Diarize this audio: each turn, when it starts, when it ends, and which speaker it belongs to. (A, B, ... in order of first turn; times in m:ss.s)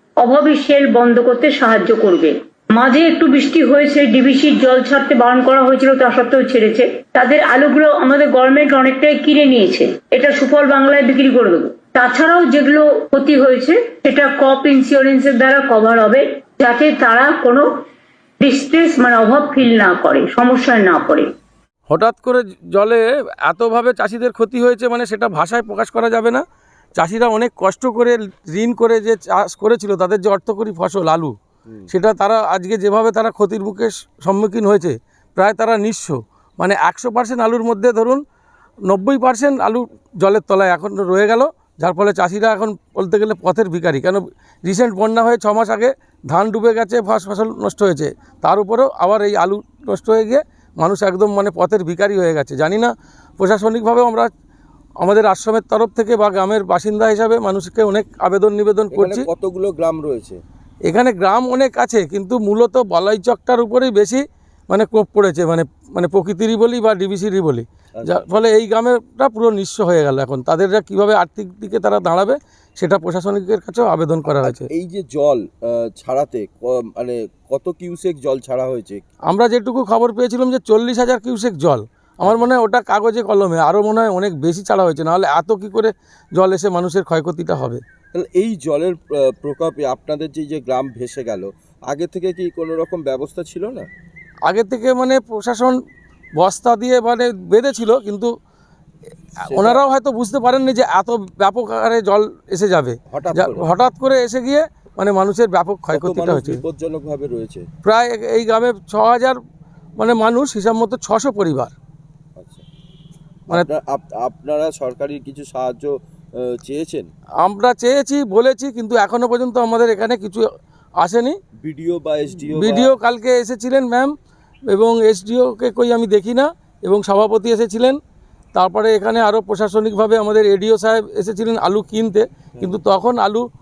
0:00.2-0:17.7 A
0:18.4-0:21.3 A
0:21.9-0:26.4 B
0:27.0-0:31.4 B
0:31.9-0:38.2 B
0:38.9-0:54.3 B
0:55.0-0:59.3 B
0:58.9-1:00.4 C
1:00.9-1:14.7 B
1:08.0-1:08.2 C
1:14.4-1:19.0 C
1:19.3-1:27.8 B
1:28.1-1:33.9 C
1:34.5-1:35.8 B
1:36.4-1:38.3 B
1:39.4-1:46.6 B
1:39.5-1:39.8 C
1:43.1-1:43.7 C
1:45.9-1:47.6 C
1:47.8-1:49.4 B
1:50.0-1:51.7 B
1:52.4-1:52.6 C
1:53.5-1:57.1 C
1:57.4-2:00.4 B
2:01.0-2:01.4 B
2:01.6-2:02.9 C
2:02.5-2:04.1 B
2:04.7-2:08.0 B
2:08.5-2:13.4 B